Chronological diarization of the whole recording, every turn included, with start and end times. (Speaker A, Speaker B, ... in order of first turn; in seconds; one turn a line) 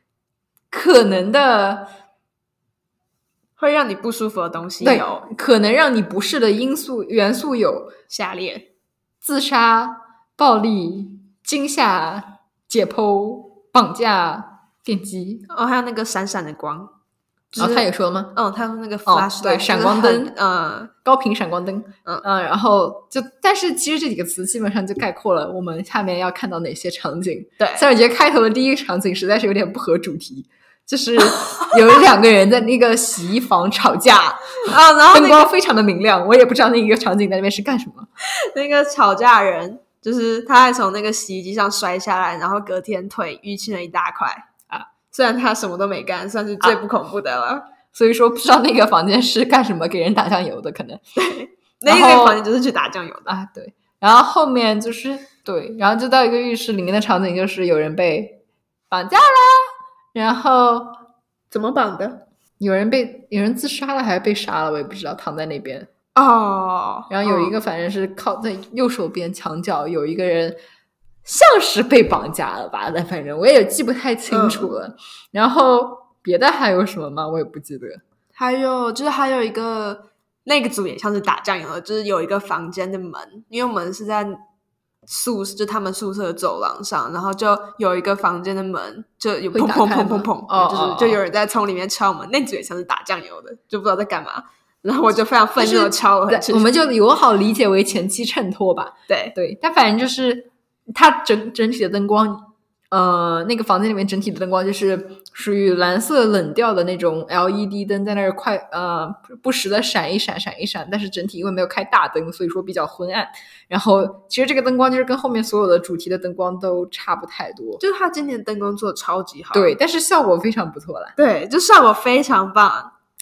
Speaker A: 0.7-1.9
Speaker B: 3.6-5.3
Speaker A: 4.8-7.9
Speaker B: 8.1-8.7
Speaker A: 9.2-15.5
Speaker B: 15.5-16.9
Speaker B: 17.5-20.9
Speaker A: 17.6-18.4
Speaker A: 19.1-20.3
Speaker A: 21.0-38.1
Speaker B: 27.6-27.9
Speaker B: 34.7-35.5
Speaker B: 38.3-44.5
Speaker B: 45.1-47.7
Speaker A: 47.9-51.0
Speaker B: 51.1-53.3
Speaker A: 51.9-52.4
Speaker A: 53.3-61.0
Speaker B: 61.5-62.2
Speaker A: 62.6-65.9
Speaker B: 66.1-67.5
Speaker A: 67.1-70.6
Speaker A: 71.2-78.0
Speaker B: 74.3-74.7
Speaker B: 78.3-84.4
Speaker B: 85.1-96.7
Speaker A: 89.5-91.2
Speaker A: 95.6-117.8
Speaker B: 99.1-99.3
Speaker B: 117.8-119.7
Speaker A: 119.5-121.2
Speaker B: 121.2-122.9